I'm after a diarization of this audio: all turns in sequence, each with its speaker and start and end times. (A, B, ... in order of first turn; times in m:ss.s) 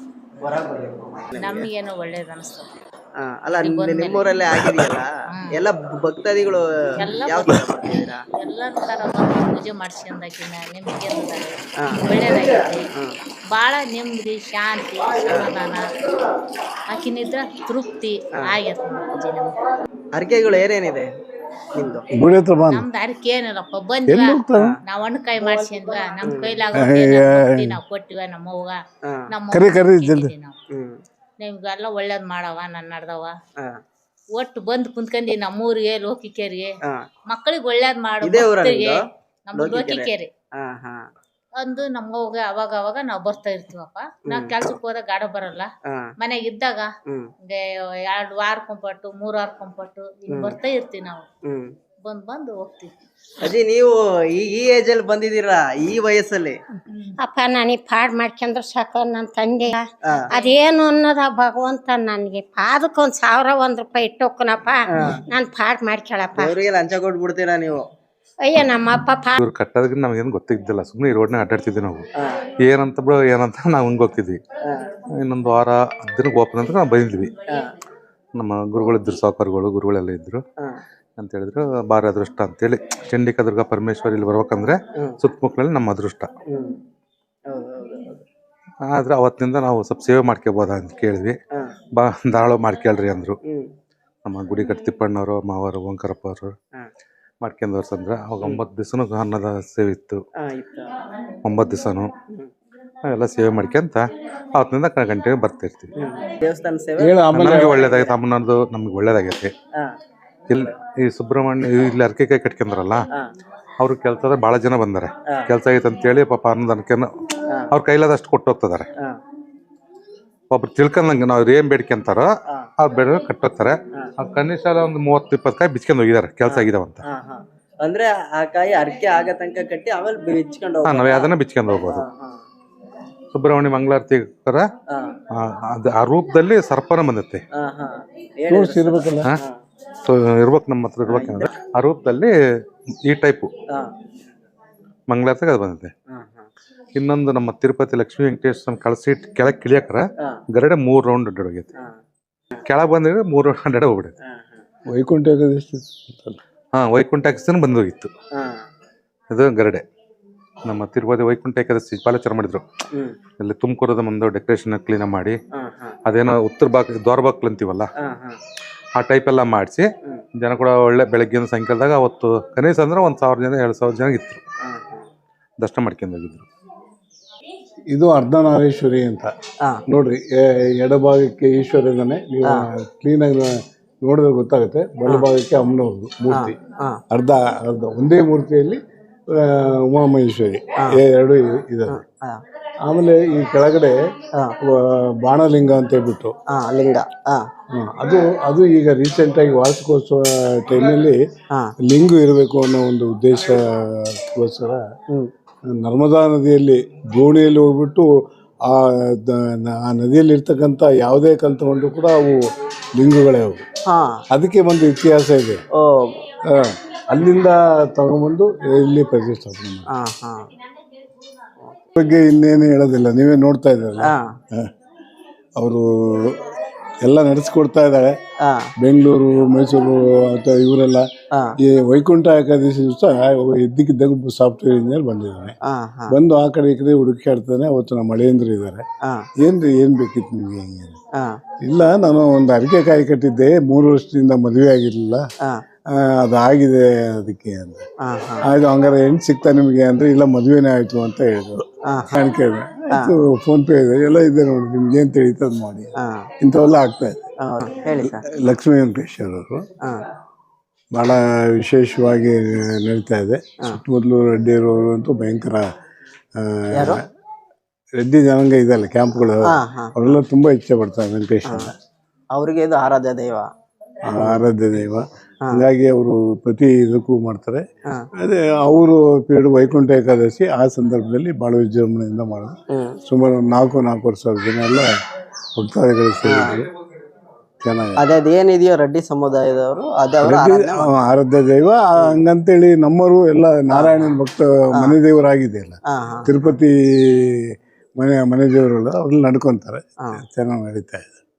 0:00.4-0:01.7 A
0:01.4-0:02.7 B
0:03.2-0:08.2 A
0:03.6-0:04.4 B
0:04.5-0:04.9 C
0:05.3-0:05.6 B
0:07.0-0:07.6 B
0:08.4-0:12.9 B
0:13.5-0:15.9 B
0:16.9-0:19.6 B
0:20.1-0:21.1 A
0:21.7-0:22.1 A
0:22.1-0:22.9 C
0:22.7-0:30.6 B
0:24.1-0:24.8 C
0:26.2-0:26.6 A
0:26.7-0:27.8 C
0:29.5-0:30.3 C
0:30.8-0:31.0 A
0:31.4-0:33.4 B
0:34.3-0:36.7 B
0:37.3-0:40.3 B
0:38.2-0:39.0 A
0:39.6-0:41.0 A
0:41.6-0:46.9 B
0:44.3-0:44.8 A
0:47.4-0:51.3 B
0:50.3-0:50.6 A
0:51.5-0:51.8 A
0:52.0-0:52.9 B
0:53.4-0:56.6 A
0:57.2-1:06.6 D
1:06.3-1:07.8 A
1:08.4-1:09.4 D
1:09.4-1:12.0 E
1:12.6-1:14.4 E
1:15.2-1:17.3 E
1:18.4-1:20.4 E
1:21.2-1:26.3 E
1:26.5-1:26.8 A
1:27.5-1:28.2 A
1:28.9-1:31.4 E
1:32.0-1:33.4 E
1:34.2-1:36.6 E
1:37.4-1:40.2 E
1:40.4-1:40.9 A
1:41.4-1:42.1 E
1:43.1-1:45.9 E
1:46.0-1:48.2 A
1:47.0-1:47.8 C
1:47.3-1:49.5 E
1:50.5-1:53.1 E
1:53.8-1:57.1 E
1:57.7-1:58.9 E
2:00.5-2:07.0 E
2:06.4-2:11.3 A
2:10.8-2:12.0 E
2:11.8-2:12.4 A
2:13.3-2:14.7 E
2:15.3-2:17.4 E
2:17.6-2:19.6 A
2:18.5-2:19.3 C
2:20.0-2:22.3 E
2:21.1-2:21.5 A
2:23.0-2:23.5 E
2:25.1-2:25.9 E
2:26.1-2:26.5 A
2:27.0-2:31.7 E
2:32.6-2:34.1 E
2:34.9-2:36.4 C
2:36.8-2:38.1 E
2:38.4-2:38.6 A
2:39.3-2:39.8 E
2:40.6-2:42.6 E
2:43.4-2:45.4 E
2:45.6-2:46.0 A
2:46.1-2:47.9 E
2:48.0-2:48.4 A
2:49.0-2:54.4 E
2:54.7-2:55.1 A
2:55.6-2:56.5 E
2:57.9-2:59.3 C
2:59.9-3:06.6 C
3:06.3-3:07.0 A
3:07.1-3:08.8 C
3:09.4-3:12.0 C
3:11.9-3:12.4 A
3:12.9-3:14.0 C
3:14.6-3:16.3 C
3:16.5-3:17.5 A
3:17.7-3:21.2 C
3:21.9-3:24.8 C
3:25.8-3:28.1 C
3:28.7-3:33.6 C
3:33.9-3:34.2 A
3:34.3-3:35.6 C
3:35.8-3:36.2 A
3:36.4-3:39.9 C
3:39.9-3:40.4 A
3:42.0-3:44.7 C
3:44.1-3:44.4 A
3:45.6-3:46.4 C
3:47.0-3:48.1 C
3:48.4-3:48.7 A
3:48.8-3:51.1 C
3:51.6-3:55.6 C
3:55.7-3:56.1 A
3:56.1-3:58.8 C
3:59.0-3:59.3 A
3:59.4-4:01.0 C
4:01.6-4:05.2 C
4:05.9-4:07.8 C
4:08.0-4:08.4 A
4:08.4-4:17.2 C
4:11.9-4:12.2 A
4:16.0-4:16.3 A
4:17.4-4:18.2 A
4:18.0-4:19.6 C
4:20.9-4:25.6 C
4:26.4-4:27.0 C
4:28.0-4:31.7 C
4:29.5-4:30.2 A
4:31.4-4:31.7 A
4:32.3-4:33.5 A
4:34.1-4:37.6 C
4:38.2-4:44.9 C
4:42.7-4:43.0 A
4:45.6-4:46.6 C
4:46.3-4:46.6 A
4:47.6-4:48.0 C
4:48.0-4:50.9 A
4:50.2-4:57.4 C
4:53.7-4:54.2 A
4:55.9-4:56.5 A
4:58.0-5:01.2 C